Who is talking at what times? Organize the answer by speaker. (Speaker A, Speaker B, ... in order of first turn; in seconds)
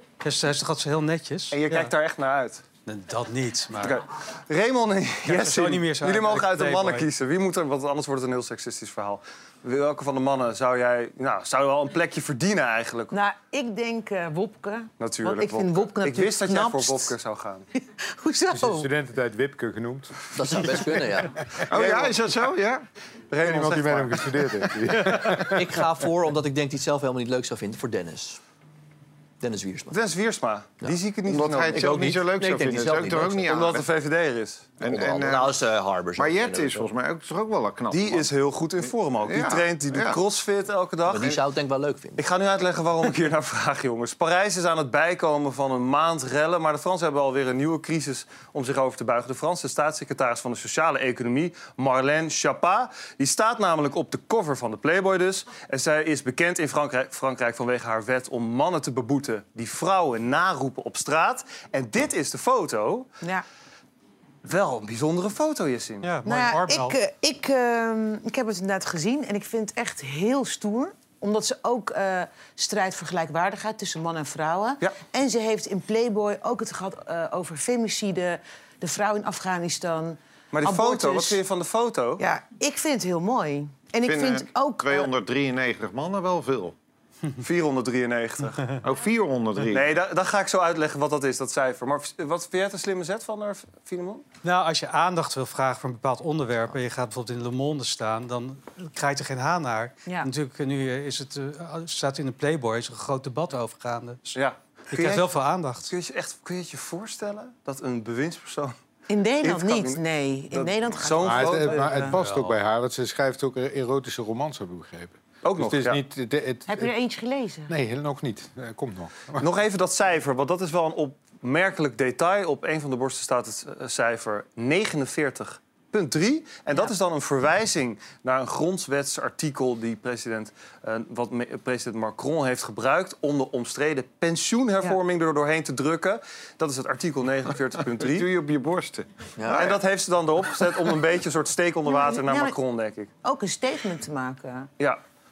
Speaker A: 0.2-1.9, 2.9-4.0, 5.2-7.1, 66.0-67.0, 94.4-104.4, 104.9-105.9
Speaker B: 1.5-2.6, 3.8-13.1, 15.0-17.7, 21.7-22.2, 23.3-24.7, 29.9-32.1, 33.5-34.7, 37.9-41.4, 42.2-63.1, 64.4-66.2, 80.5-82.2, 87.4-88.6, 89.7-94.2, 104.3-105.3, 105.9-108.7, 109.4-112.5, 115.4-116.0, 119.4-138.3, 139.5-143.1
Speaker C: 13.1-17.1, 18.0-18.9, 66.2-81.4, 82.2-85.1, 109.1-112.1, 116.7-117.7, 141.9-142.6, 143.2-144.7
Speaker D: 18.5-21.1, 23.4-25.7, 111.2-116.9, 117.7-119.5
Speaker E: 20.4-21.3, 25.5-28.4, 29.4-30.0, 31.7-33.6, 34.8-36.9, 41.1-42.2, 139.4-139.7
Speaker F: 21.7-22.8, 31.3-33.9, 34.8-38.3, 39.2-40.2, 84.0-86.7, 88.8-89.9, 138.0-139.8